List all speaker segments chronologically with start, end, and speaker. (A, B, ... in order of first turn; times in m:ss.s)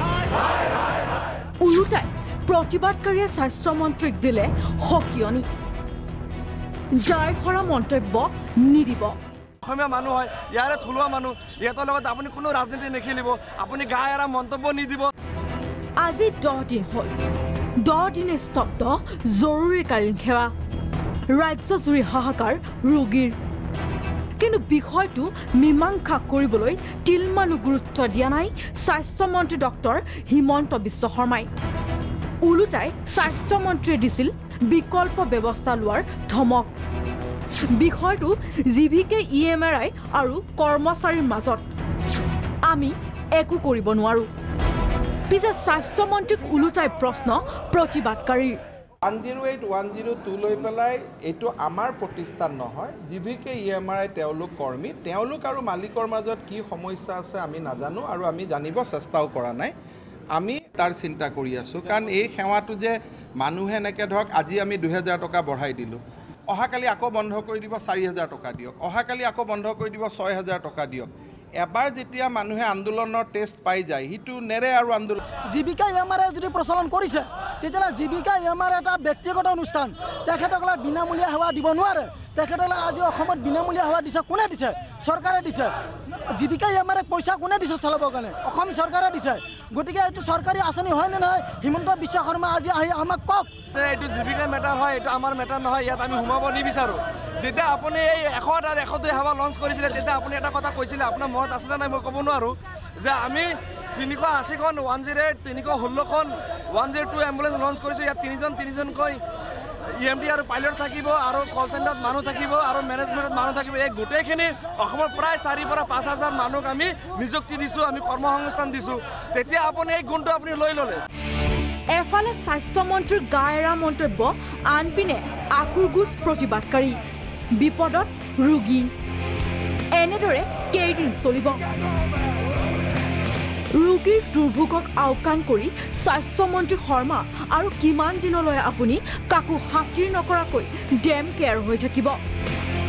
0:01.6-0:05.5 A
0:06.9-0:09.2 A
0:09.6-0:15.1 B
0:16.0-0:17.1 A
0:17.8-0:20.5 A
0:21.3-0:23.4 A
0:24.4-0:31.5 A
0:32.4-0:36.7 A
0:37.7-0:41.7 A
0:42.7-0:44.3 A
0:45.3-0:48.6 A
0:49.1-0:59.7 C
1:00.4-1:06.0 C
1:06.5-1:15.2 C
1:15.5-1:25.7 D
1:26.3-1:33.5 D
1:33.7-1:49.2 B
1:49.9-2:01.0 B
2:01.9-2:07.0 A
2:07.6-2:08.9 A
2:09.9-2:11.6 A
2:13.7-2:22.2 A